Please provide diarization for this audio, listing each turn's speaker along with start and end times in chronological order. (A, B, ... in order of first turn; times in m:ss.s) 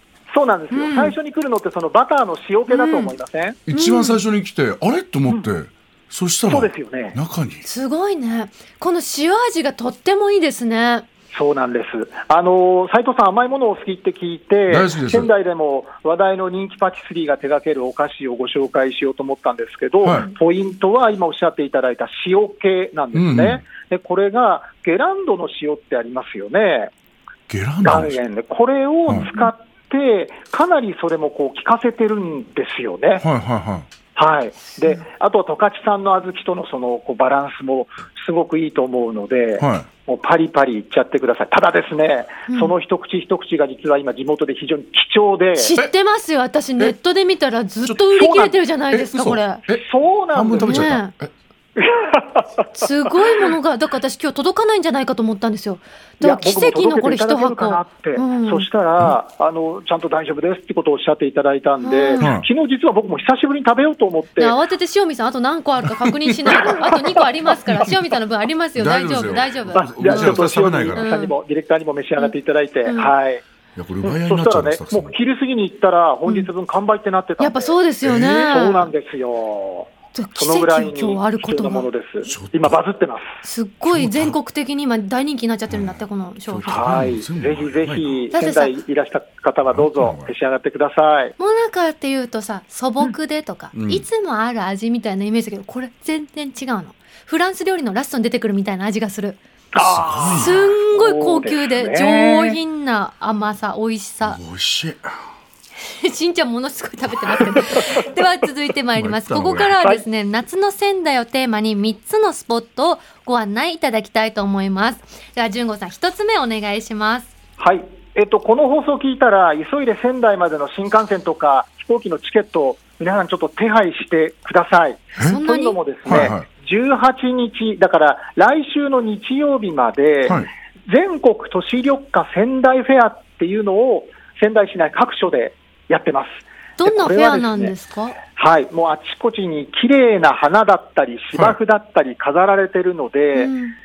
0:00.3-0:03.6 A
0:00.7-0:01.1 B
0:02.7-0:03.1 B
0:03.7-0:07.6 C
0:03.7-0:04.2 B
0:06.5-0:07.2 A
0:07.6-0:11.1 B
0:11.3-0:26.9 A
0:14.7-0:15.3 C
0:23.1-0:23.6 C
0:27.5-0:28.2 C
0:27.8-0:33.2 A
0:29.2-0:29.5 B
0:33.2-0:33.9 C
0:34.2-0:45.7 A
0:39.6-0:39.9 C
0:42.5-0:42.7 B
0:45.6-0:49.6 B
0:47.8-0:51.3 C
0:49.8-0:50.9 A
0:50.6-0:51.1 B
0:51.8-0:52.7 A
0:52.8-0:58.7 B
0:56.2-1:04.6 A
1:01.8-1:02.2 B
1:02.2-1:02.5 C
1:04.4-1:10.4 B
1:05.8-1:06.4 C
1:08.8-1:11.1 C
1:09.7-1:13.4 A
1:11.0-1:11.3 B
1:12.8-1:13.1 B
1:13.8-1:15.1 C
1:14.1-1:23.3 A
1:17.4-1:18.9 B
1:18.0-1:18.5 C
1:20.1-1:21.9 B
1:22.2-1:22.8 C
1:23.4-1:26.9 B
1:23.9-1:24.4 C
1:25.7-1:28.2 C
1:26.7-1:31.3 A
1:28.3-1:28.8 B
1:29.7-1:30.3 C
1:31.4-1:39.4 B
1:33.7-1:34.1 C
1:39.7-1:42.6 A
1:39.8-1:40.6 C
1:40.3-1:44.4 B
1:44.2-1:45.2 C
1:45.8-1:57.3 B
1:49.0-1:49.7 C
1:57.6-2:17.7 A
2:05.2-2:06.2 B
2:06.1-2:06.5 C
2:16.8-2:18.2 B
2:18.4-2:23.5 A
2:23.3-2:23.8 B